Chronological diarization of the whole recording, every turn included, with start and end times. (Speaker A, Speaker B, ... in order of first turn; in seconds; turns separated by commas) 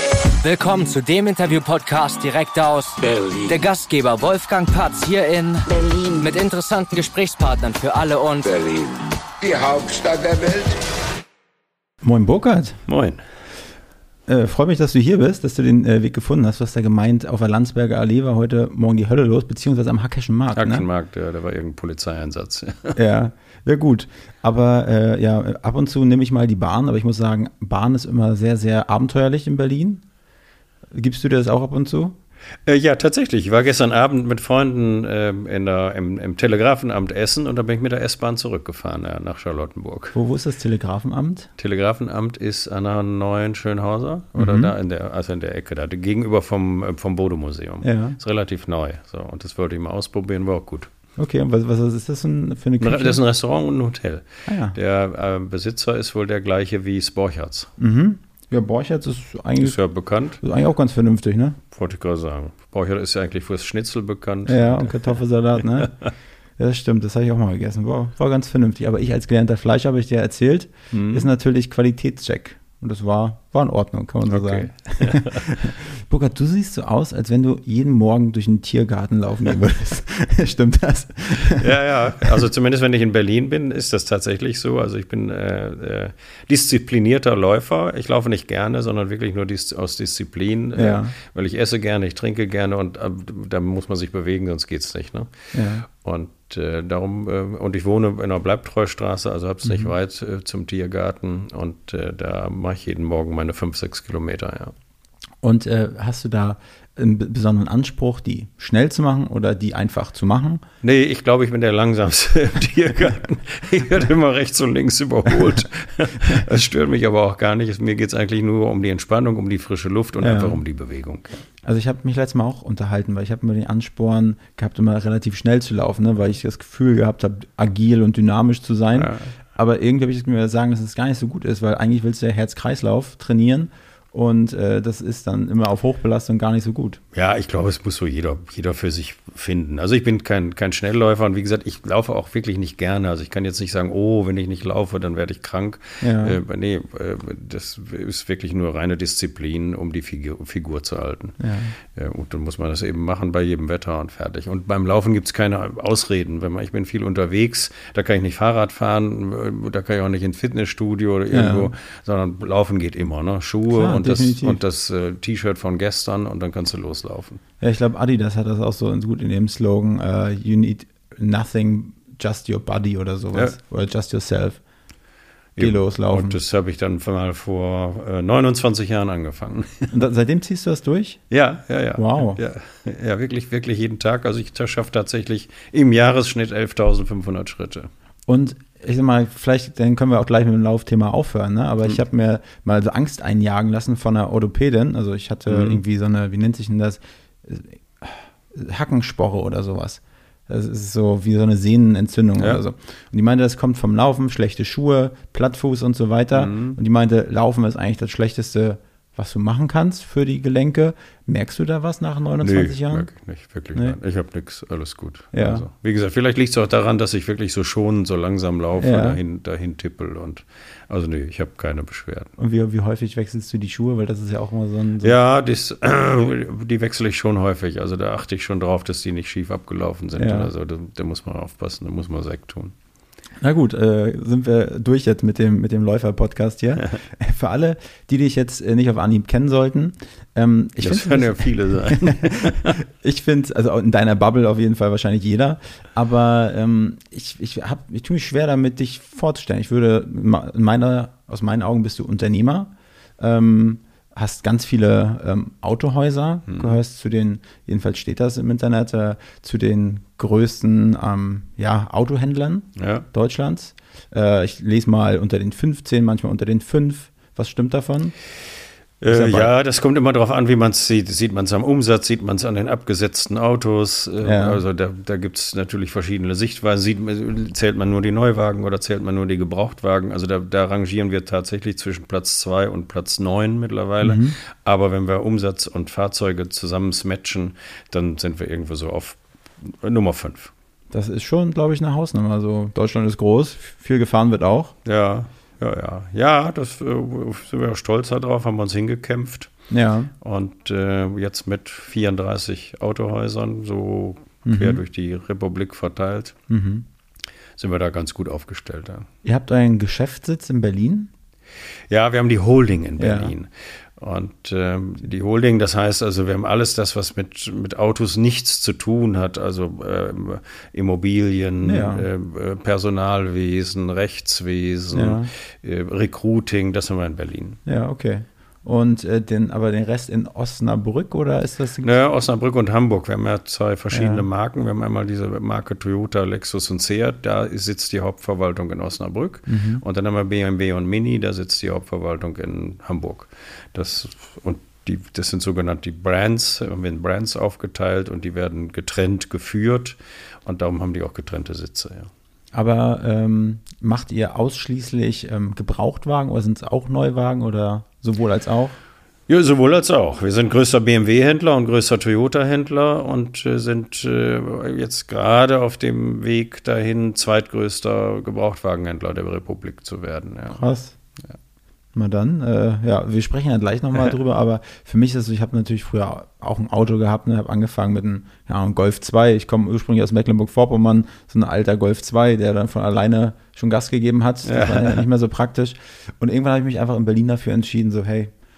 Speaker A: 0.4-5.7, Speaker B: 3.0-3.6, Speaker B: 5.7-6.3, Speaker A: 6.2-8.4, Speaker B: 8.4-10.8, Speaker C: 12.0-12.8, Speaker D: 12.9-13.2, Speaker C: 14.3-20.9, Speaker D: 20.6-23.0, Speaker C: 22.9-30.0, Speaker C: 30.9-32.2, Speaker D: 32.7-40.1, Speaker C: 40.1-41.5, Speaker D: 41.6-50.9, Speaker C: 44.4-44.7, Speaker C: 47.8-48.2, Speaker C: 51.2-53.2, Speaker D: 52.8-57.7, Speaker C: 54.5-54.8, Speaker C: 57.8-59.8, Speaker D: 59.6-60.4, Speaker C: 60.4-61.6, Speaker D: 61.7-66.1, Speaker C: 64.5-65.9, Speaker C: 66.6-81.7, Speaker D: 70.9-71.3, Speaker D: 74.3-75.5, Speaker D: 81.3-104.7, Speaker C: 90.8-91.2, Speaker C: 95.5-95.9, Speaker C: 99.6-99.9, Speaker C: 105.4-110.6, Speaker D: 110.8-121.3, Speaker C: 120.2-120.6, Speaker C: 121.6-137.0, Speaker D: 128.9-129.3, Speaker D: 137.1-167.4, Speaker C: 146.0-146.4, Speaker C: 151.4-151.8, Speaker C: 161.3-161.7, Speaker C: 163.7-164.6, Speaker C: 167.6-174.6, Speaker D: 175.6-179.9, Speaker C: 175.6-176.4, Speaker C: 179.9-181.2, Speaker D: 181.3-187.9, Speaker C: 182.0-182.4, Speaker C: 188.3-213.1, Speaker D: 195.5-195.8, Speaker D: 206.3-206.8, Speaker D: 212.4-222.3, Speaker C: 215.3-215.7, Speaker C: 218.8-219.2, Speaker C: 222.4-225.2, Speaker D: 225.0-232.7, Speaker C: 230.2-230.5, Speaker C: 233.4-268.1, Speaker D: 240.8-242.8, Speaker D: 256.5-256.8, Speaker D: 262.8-263.1, Speaker D: 269.0-290.5, Speaker C: 269.1-269.5, Speaker C: 274.2-274.6, Speaker C: 284.0-284.4, Speaker C: 290.9-294.7, Speaker D: 294.9-299.5, Speaker C: 299.7-300.1, Speaker D: 300.2-306.4, Speaker C: 304.4-304.8, Speaker C: 306.5-306.9, Speaker D: 307.6-309.1, Speaker C: 309.2-311.1, Speaker D: 311.9-327.6, Speaker C: 313.0-313.3, Speaker C: 321.6-322.1, Speaker C: 324.9-325.3, Speaker C: 327.7-331.9, Speaker D: 331.8-352.1, Speaker C: 333.9-334.2, Speaker C: 339.5-339.8, Speaker C: 352.5-358.8, Speaker D: 359.3-370.6, Speaker C: 370.5-371.0, Speaker C: 371.9-388.3, Speaker D: 384.4-385.0